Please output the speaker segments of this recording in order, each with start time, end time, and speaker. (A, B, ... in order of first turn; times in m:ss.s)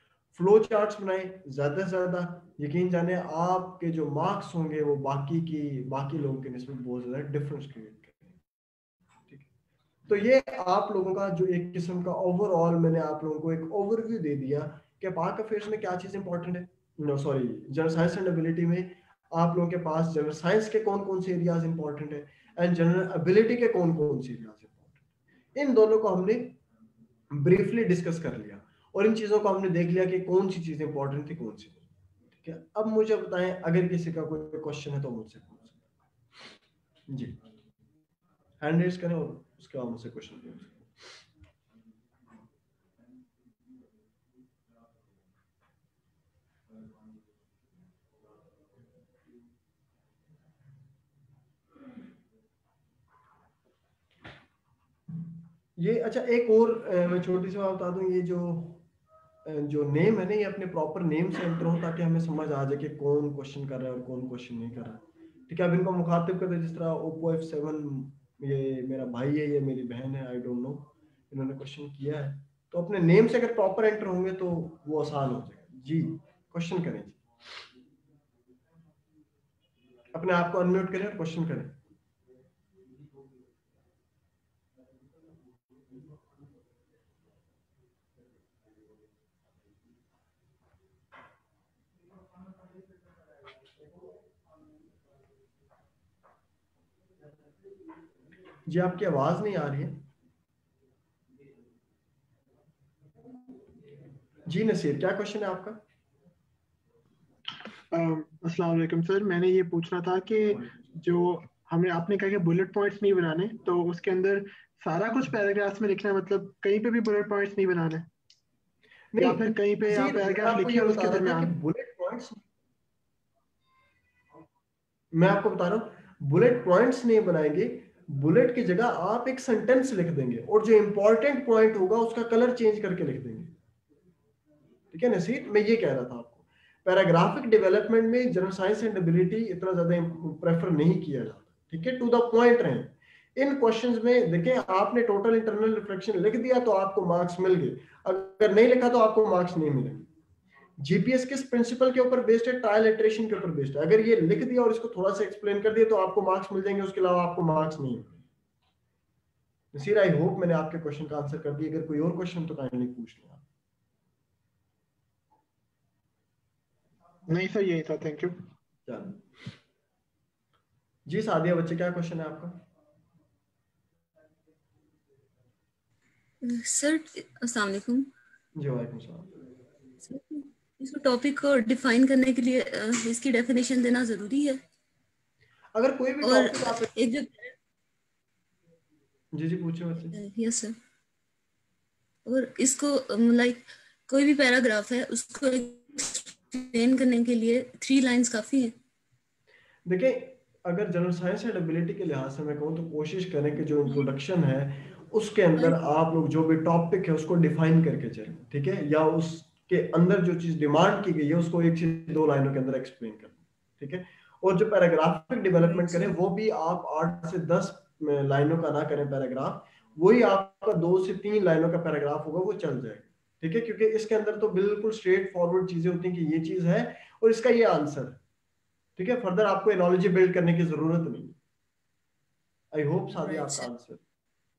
0:00.3-0:08.4 A
0:10.1-0:25.0 A
0:25.6-0:26.6 A
0:27.3-0:35.8 A
0:37.1-0:37.4 A
0:38.6-0:40.9 A
0:55.8-0:58.8 A
0:59.4-1:17.2 A
1:20.1-1:21.8 A
1:38.7-1:40.0 A
1:44.5-1:45.8 A
1:47.9-1:58.1 B
1:59.1-2:02.4 A
1:59.2-2:01.6 B
2:05.1-2:13.5 A
2:14.9-2:30.1 A
2:30.8-2:38.2 A
2:39.7-2:43.4 A
2:47.3-2:48.4 B
2:48.9-2:49.2 A
2:51.1-2:52.6 A
2:56.4-2:58.1 C
2:58.6-2:59.3 A
3:00.0-3:04.6 C
3:05.8-3:06.9 A
3:06.2-3:07.6 C
3:09.3-3:10.2 A
3:10.1-3:10.8 C
3:12.3-3:18.8 C
3:19.9-3:48.2 A
3:35.6-3:36.1 C
3:49.0-3:51.4 A
3:52.7-3:54.0 A
3:53.2-3:53.7 C